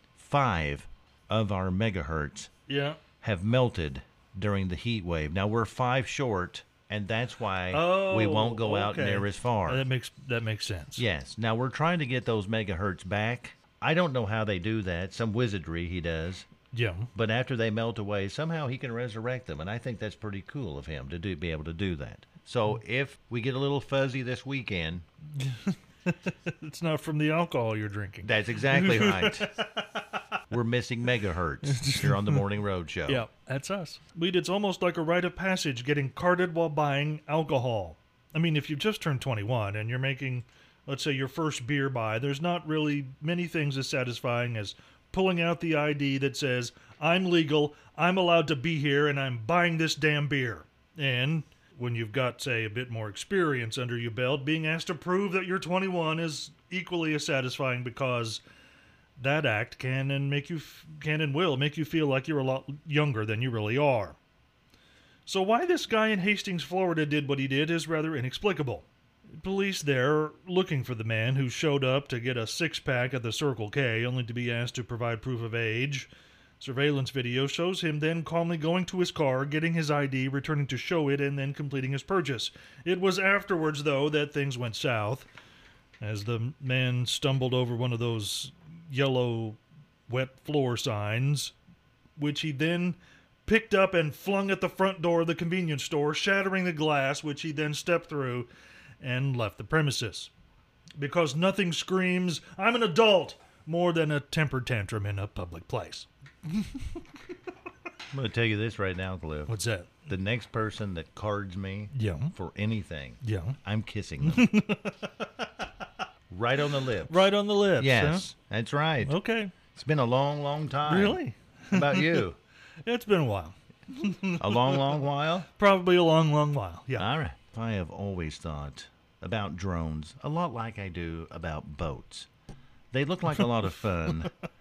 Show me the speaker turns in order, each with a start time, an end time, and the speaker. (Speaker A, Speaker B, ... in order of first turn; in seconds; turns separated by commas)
Speaker A: 0.1-2.5, Speaker B: 2.7-3.0, Speaker A: 3.2-9.8, Speaker B: 7.7-11.0, Speaker A: 10.9-16.4, Speaker B: 16.7-17.1, Speaker A: 17.1-25.0, Speaker B: 25.4-30.0, Speaker A: 28.2-29.5, Speaker A: 30.5-33.2, Speaker B: 31.6-32.4, Speaker B: 33.1-58.4, Speaker B: 59.2-64.2, Speaker B: 65.2-68.9, Speaker B: 69.4-85.3, Speaker B: 86.0-91.5, Speaker B: 92.2-98.5, Speaker B: 99.0-100.3, Speaker B: 101.0-106.8, Speaker A: 108.1-109.5, Speaker B: 109.5-110.0, Speaker A: 110.1-114.5, Speaker B: 111.9-112.3, Speaker B: 113.2-113.6, Speaker B: 114.2-115.7, Speaker A: 116.3-119.2, Speaker B: 117.1-118.3, Speaker B: 119.0-119.5, Speaker A: 119.7-122.4, Speaker B: 120.8-122.3, Speaker B: 122.8-125.0, Speaker A: 124.3-125.5, Speaker B: 125.5-127.1, Speaker A: 127.0-132.3, Speaker A: 132.9-134.3